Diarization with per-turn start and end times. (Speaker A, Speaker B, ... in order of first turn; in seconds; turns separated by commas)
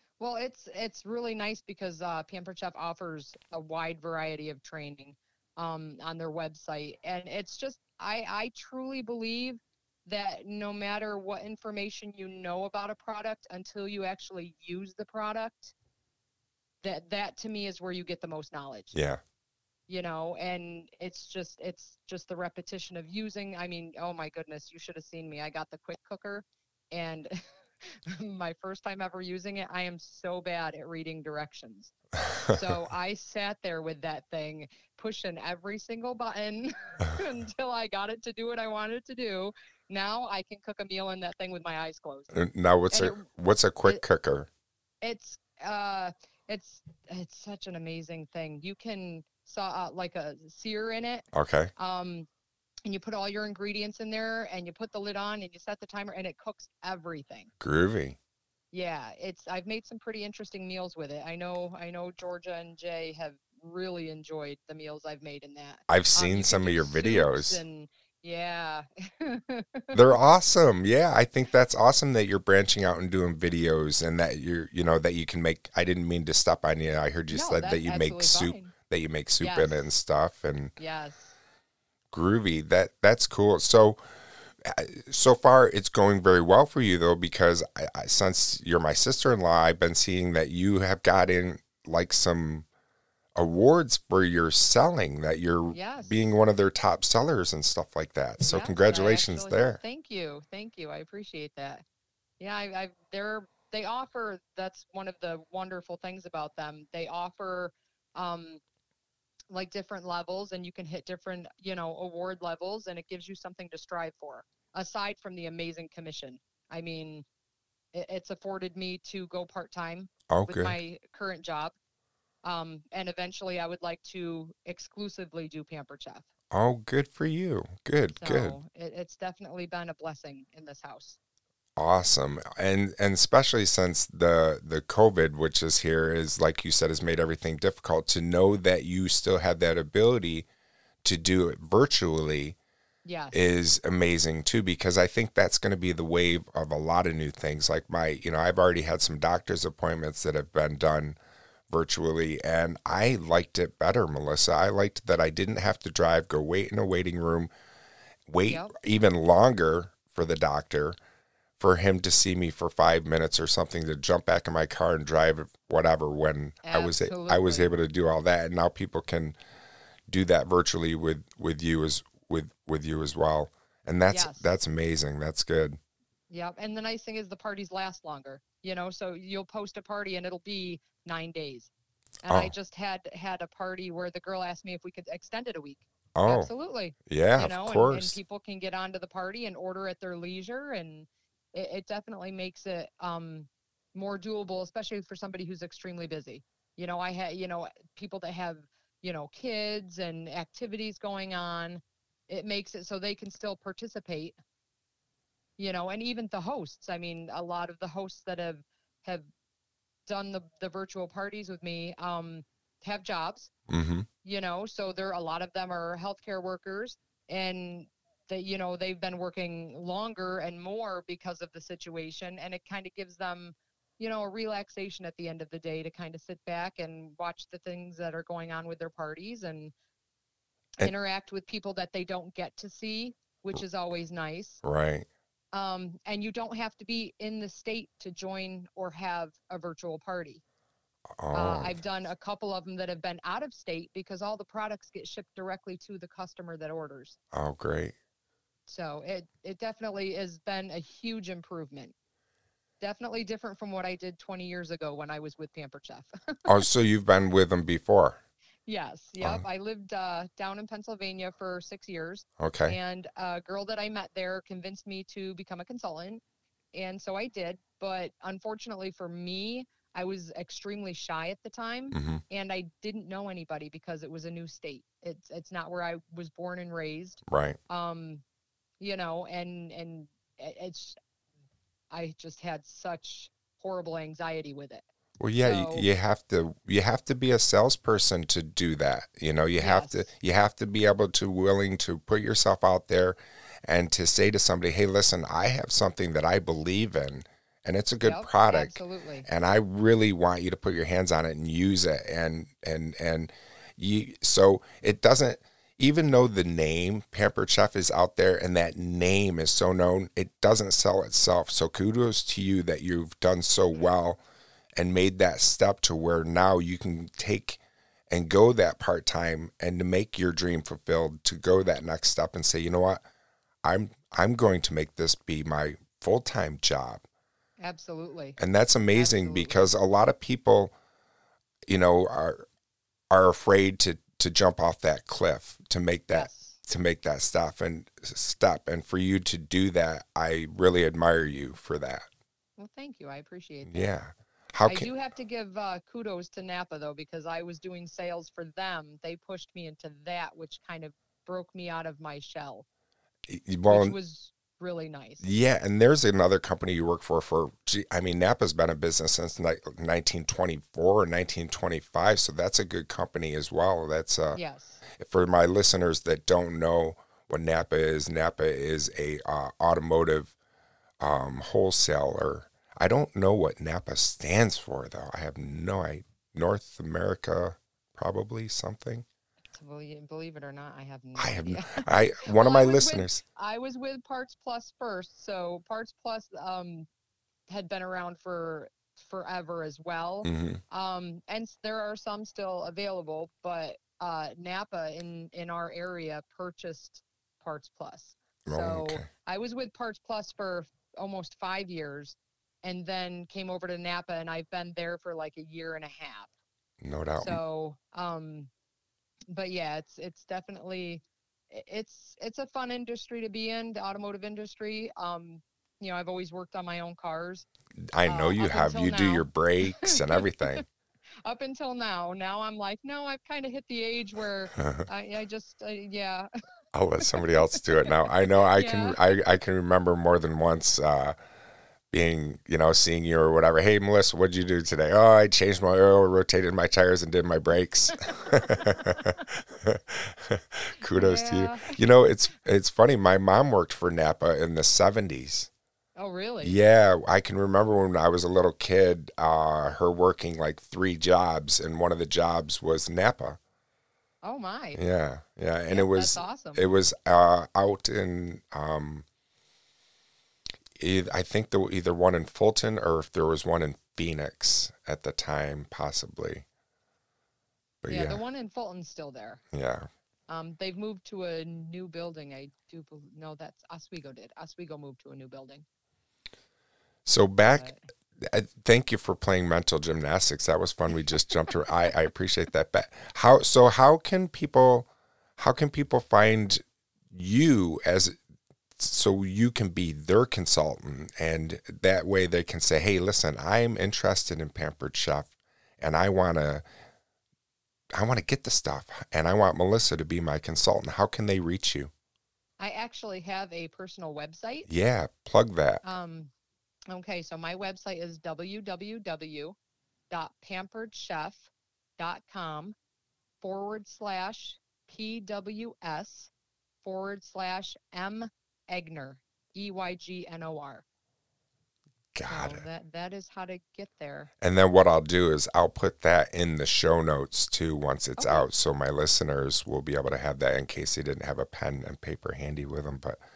Speaker A: 0.2-15.7, Speaker A: 16.8-18.9, Speaker B: 18.9-19.2, Speaker A: 19.9-31.9, Speaker A: 32.5-42.3, Speaker B: 42.3-44.5, Speaker A: 42.9-43.2, Speaker A: 45.0-52.3, Speaker B: 51.3-51.7, Speaker A: 52.9-57.5, Speaker B: 57.6-58.2, Speaker A: 58.7-69.9, Speaker B: 65.9-67.6, Speaker B: 69.9-80.7, Speaker A: 77.3-78.7, Speaker A: 79.4-79.9, Speaker A: 80.8-81.3, Speaker B: 82.1-84.0, Speaker B: 84.6-92.7, Speaker B: 93.3-99.8, Speaker A: 95.7-96.3, Speaker A: 98.4-101.8, Speaker A: 102.4-108.6, Speaker A: 109.5-117.2, Speaker A: 117.9-121.7, Speaker B: 120.3-120.8, Speaker A: 122.4-126.3, Speaker B: 126.5-128.6, Speaker A: 128.1-131.2, Speaker B: 131.8-140.5, Speaker B: 141.0-142.6, Speaker A: 143.0-143.4, Speaker B: 143.3-151.2, Speaker B: 151.7-157.5, Speaker B: 158.3-160.9, Speaker A: 158.5-158.8, Speaker B: 161.6-169.4, Speaker A: 166.6-167.7, Speaker B: 170.1-175.8, Speaker A: 174.1-174.5, Speaker A: 176.3-181.7, Speaker A: 182.2-204.3, Speaker B: 186.1-186.5, Speaker B: 187.1-188.2, Speaker A: 205.6-209.2, Speaker A: 210.1-213.5, Speaker B: 213.7-214.1, Speaker A: 214.2-229.7, Speaker A: 230.8-234.6, Speaker B: 234.6-235.1, Speaker A: 235.5-240.4, Speaker B: 241.2-241.8, Speaker A: 241.3-247.2, Speaker B: 247.3-247.9, Speaker A: 248.7-251.9, Speaker A: 252.8-256.5, Speaker B: 256.4-258.2, Speaker A: 258.6-278.2, Speaker B: 262.4-262.8, Speaker B: 271.9-272.2, Speaker B: 277.3-277.6, Speaker A: 278.8-281.0, Speaker A: 281.9-284.9, Speaker B: 285.2-314.2, Speaker A: 285.4-285.9, Speaker A: 289.6-290.1, Speaker A: 298.0-299.3, Speaker B: 314.8-323.0, Speaker B: 323.6-327.0, Speaker A: 327.6-328.4, Speaker B: 328.4-330.7, Speaker A: 328.9-329.7, Speaker B: 331.7-332.4, Speaker B: 333.1-342.1, Speaker A: 336.1-336.6, Speaker A: 342.6-343.9, Speaker B: 343.6-344.9, Speaker A: 344.6-352.6, Speaker B: 353.3-353.9, Speaker A: 353.7-355.2, Speaker B: 355.2-364.4, Speaker A: 364.3-364.8, Speaker B: 364.9-370.4, Speaker B: 371.0-379.0, Speaker A: 379.5-386.9, Speaker B: 381.1-383.2, Speaker A: 387.5-406.3, Speaker B: 390.2-390.6, Speaker B: 398.4-399.1, Speaker B: 406.8-407.4, Speaker A: 407.2-408.5, Speaker A: 409.3-417.5, Speaker B: 417.9-420.6, Speaker A: 418.0-420.6, Speaker A: 421.2-426.3, Speaker B: 424.6-424.9, Speaker B: 426.7-431.1, Speaker A: 427.1-427.9, Speaker A: 428.5-429.0, Speaker B: 431.9-445.5, Speaker A: 438.0-439.0, Speaker A: 440.9-441.8, Speaker A: 445.9-446.6, Speaker B: 446.4-453.4, Speaker A: 454.2-454.8, Speaker B: 454.8-459.0, Speaker A: 455.7-456.7, Speaker B: 460.8-466.4, Speaker B: 467.8-468.2, Speaker A: 467.9-469.4, Speaker B: 469.5-469.9, Speaker A: 470.3-475.6, Speaker B: 477.0-488.1, Speaker A: 477.5-477.8, Speaker B: 488.8-496.6, Speaker B: 497.9-501.9, Speaker A: 502.6-504.7, Speaker B: 504.6-505.8, Speaker A: 505.8-506.3, Speaker A: 506.9-509.6, Speaker A: 510.1-512.8, Speaker A: 513.4-516.3, Speaker A: 516.8-520.9, Speaker B: 522.1-522.6, Speaker A: 522.2-524.3, Speaker B: 524.4-533.2, Speaker A: 528.2-528.5